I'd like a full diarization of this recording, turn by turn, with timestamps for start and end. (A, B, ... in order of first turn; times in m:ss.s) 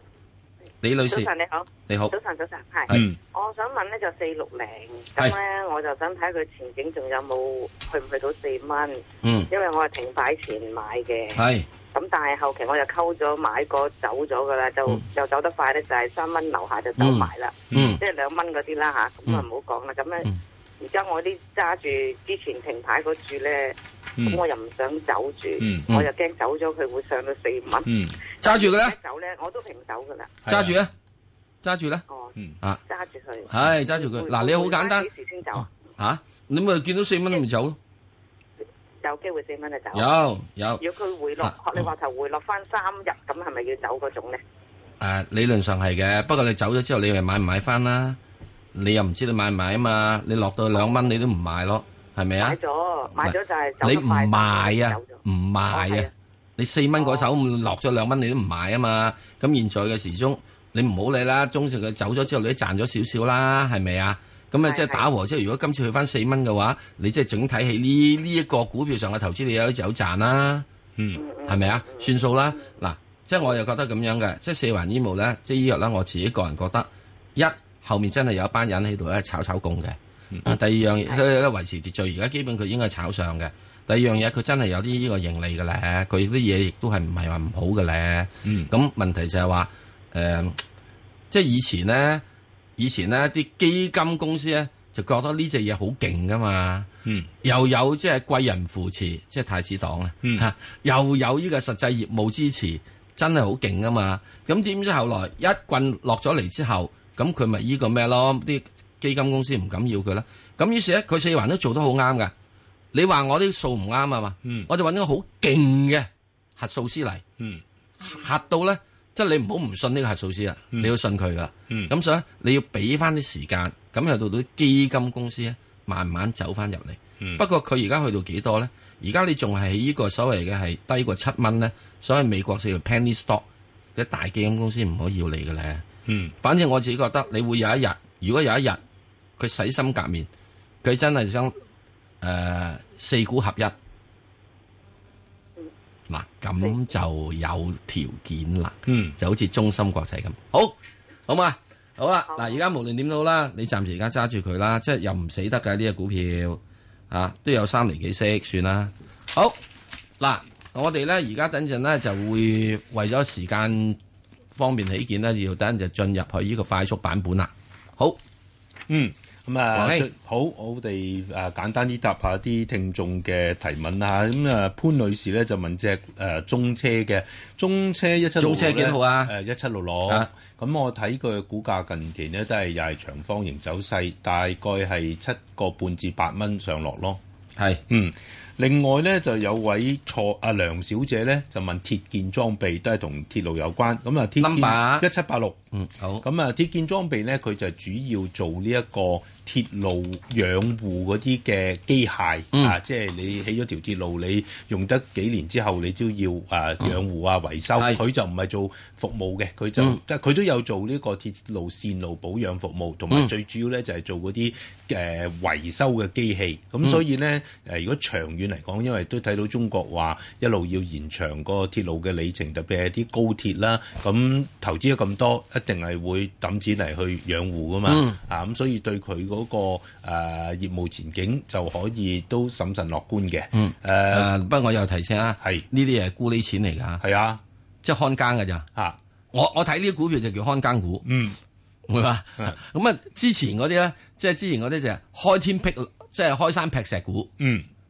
0:00.8-0:01.3 A
0:01.1-0:20.3 B
0:01.9-0:02.1 A
0:02.9-0:03.2 C
0:09.2-0:09.5 A
0:11.3-0:11.7 A
0:17.0-0:18.0 A
0:17.7-0:18.0 C
0:20.8-0:27.9 B
0:25.6-0:25.9 C
0:27.8-0:28.2 C
0:28.4-0:30.4 B
0:28.4-0:29.0 A
0:30.4-0:30.8 C
0:30.5-0:30.9 A
0:31.6-0:32.0 A
0:32.1-0:32.3 B
0:32.8-0:35.7 B
0:33.5-0:35.1 A
0:35.6-0:37.8 A
0:39.0-0:40.1 B
0:39.9-0:40.8 A
0:40.8-0:44.4 B
0:45.0-0:48.2 A
0:48.7-0:52.6 A
0:52.4-0:56.1 B
0:53.1-1:10.6 A
0:57.0-0:57.3 B
1:04.6-1:05.0 B
1:11.0-1:11.2 C
1:11.2-1:12.1 B
1:11.4-1:30.6 A
1:28.4-1:28.7 C
1:31.3-1:32.2 A
1:32.8-1:36.9 A
1:37.4-1:52.3 A
1:40.2-1:40.5 C
1:52.9-1:57.2 A
1:54.4-1:54.7 C
1:58.0-2:15.8 A
2:16.1-2:16.3 C
2:16.4-2:18.8 A
2:19.4-2:20.3 A
2:20.8-2:21.6 A
2:22.2-2:23.7 A
2:26.1-2:30.7 A
2:28.8-2:29.2 C
2:31.3-2:39.6 A
2:32.3-2:32.6 B
2:40.2-2:44.0 A
2:44.5-2:48.2 A
2:48.9-3:07.2 C
2:49.7-2:50.1 A
2:58.4-2:59.3 A
3:07.6-3:07.8 A
3:07.9-3:15.6 C
3:14.4-3:15.1 A
3:15.7-3:16.2 A
3:16.2-3:54.3 C
3:47.9-3:48.2 A
3:53.5-3:57.0 A
3:55.4-3:55.6 C
3:57.0-3:57.4 C
3:57.8-3:58.7 A
3:59.3-4:01.1 A
4:01.0-4:01.4 C
4:01.9-4:07.3 A
4:07.4-4:07.7 C